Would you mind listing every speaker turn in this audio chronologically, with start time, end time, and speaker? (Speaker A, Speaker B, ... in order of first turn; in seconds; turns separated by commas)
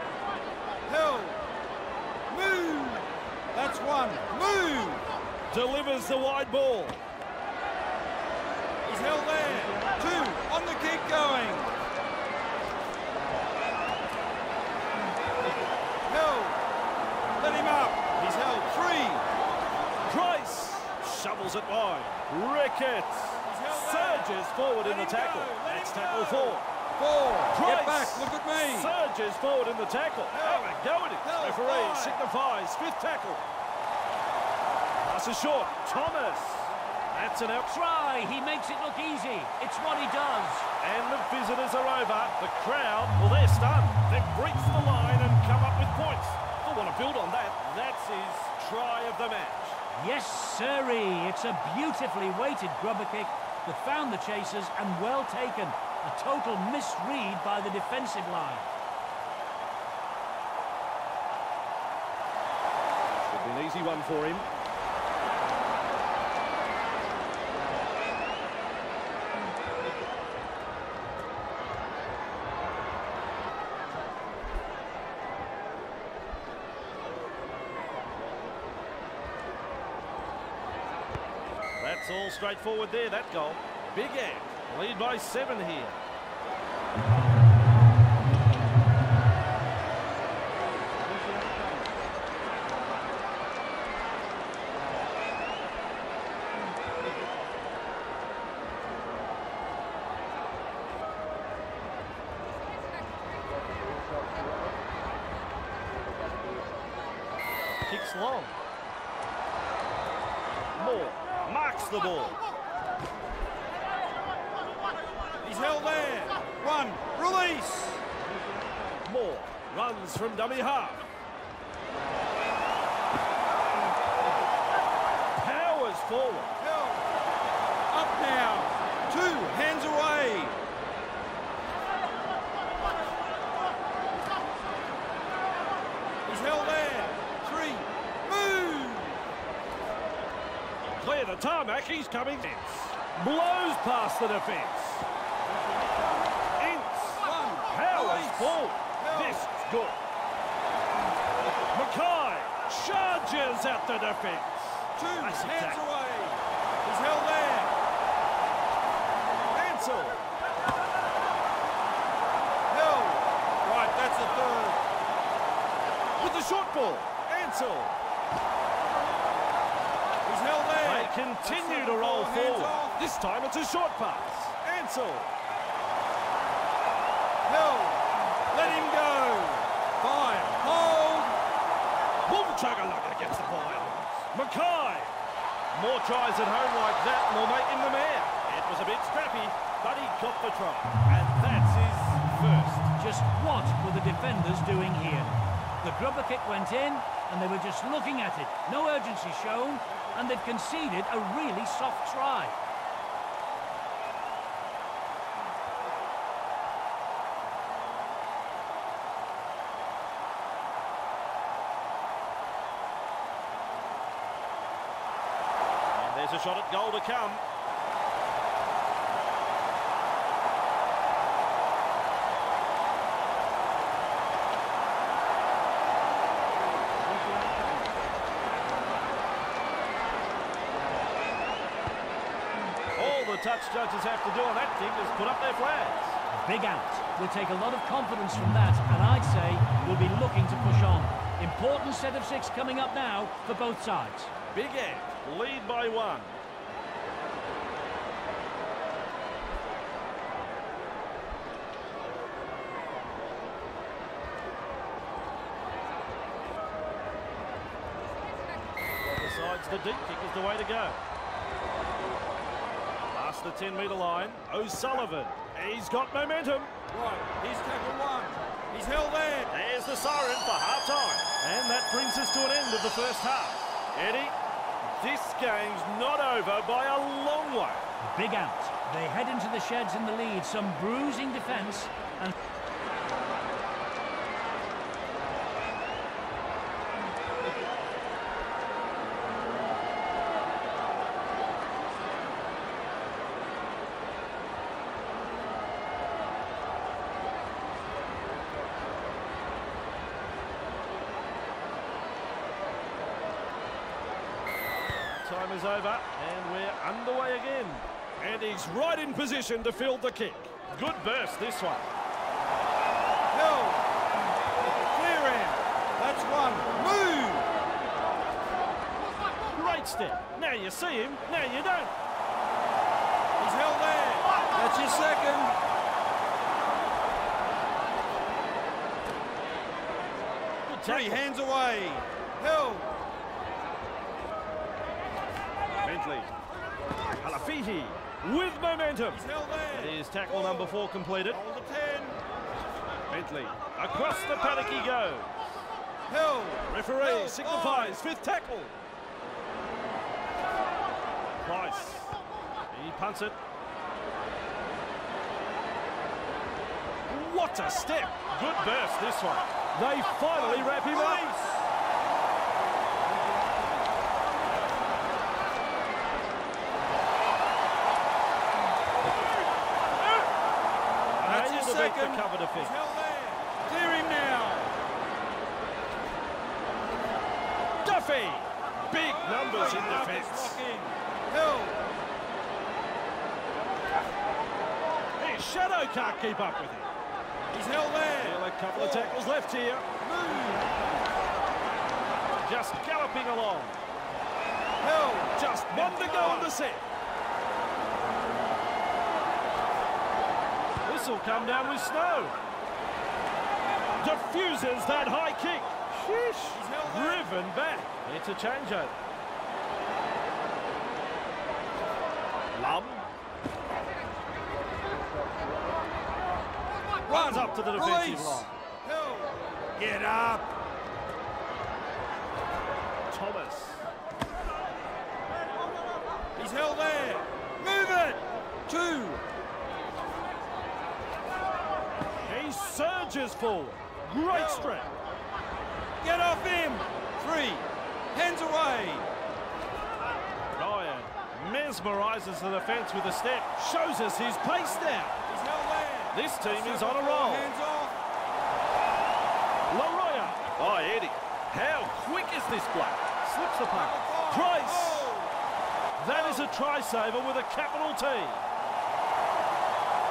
Speaker A: 0.9-1.4, Speaker A: 2.3-5.0, Speaker B: 5.5-7.0, Speaker A: 8.8-11.7, Speaker A: 16.1-16.6, Speaker A: 17.4-19.2, Speaker B: 20.1-26.7, Speaker A: 23.5-28.9, Speaker B: 27.5-33.5, Speaker A: 30.3-32.2, Speaker B: 35.0-37.8, Speaker C: 37.7-40.7, Speaker B: 40.8-49.8, Speaker C: 50.0-58.7, Speaker B: 63.3-64.5, Speaker B: 81.8-86.0, Speaker B: 107.9-108.6, Speaker B: 110.8-112.4, Speaker A: 115.4-118.0, Speaker B: 119.0-121.1, Speaker B: 125.4-126.5, Speaker A: 126.6-127.0, Speaker A: 127.9-130.6, Speaker A: 136.2-139.2, Speaker B: 140.9-145.1, Speaker B: 146.6-150.0, Speaker A: 147.2-149.4, Speaker B: 151.7-155.8, Speaker A: 155.0-157.8, Speaker B: 159.5-160.2, Speaker A: 162.7-164.8, Speaker B: 166.2-168.0, Speaker A: 170.2-172.9, Speaker B: 170.8-175.3, Speaker A: 177.5-181.4, Speaker B: 182.3-185.1, Speaker B: 185.7-192.9, Speaker C: 193.0-202.6, Speaker B: 215.9-217.4, Speaker B: 232.9-236.2, Speaker C: 236.3-244.3, Speaker B: 244.5-246.4, Speaker B: 259.1-261.0, Speaker B: 263.1-266.7, Speaker A: 266.9-269.5, Speaker B: 269.5-274.4, Speaker B: 275.0-277.9, Speaker C: 278.0-282.3, Speaker B: 305.0-311.9, Speaker A: 313.3-313.9, Speaker A: 314.9-317.5, Speaker B: 319.5-321.9, Speaker A: 323.4-325.5, Speaker B: 330.6-331.2, Speaker A: 330.8-333.0, Speaker B: 335.8-336.3, Speaker B: 337.2-341.4, Speaker A: 339.1-340.8, Speaker A: 341.3-342.2, Speaker B: 343.1-345.6, Speaker A: 346.1-348.0, Speaker B: 346.7-348.8, Speaker B: 351.4-352.2, Speaker B: 352.7-353.4, Speaker B: 357.1-361.2, Speaker A: 360.3-361.7, Speaker B: 371.2-372.9, Speaker A: 371.2-374.7, Speaker B: 377.8-380.6, Speaker A: 379.1-382.0, Speaker B: 385.2-386.9, Speaker A: 387.5-389.2, Speaker B: 388.2-389.9, Speaker A: 390.0-391.0, Speaker B: 392.4-393.8, Speaker A: 394.8-396.5, Speaker B: 395.4-396.9, Speaker B: 400.8-402.4, Speaker B: 404.0-408.9, Speaker A: 406.5-407.3, Speaker B: 412.5-413.1, Speaker A: 417.1-420.5, Speaker B: 417.1-418.5, Speaker B: 423.1-423.9, Speaker A: 426.4-429.2, Speaker B: 432.2-434.9, Speaker A: 434.3-434.8, Speaker A: 436.0-439.1, Speaker B: 440.6-445.2, Speaker A: 445.3-447.9, Speaker B: 446.1-447.5, Speaker B: 449.7-455.1, Speaker A: 453.7-455.3, Speaker B: 456.0-458.4, Speaker A: 456.1-456.5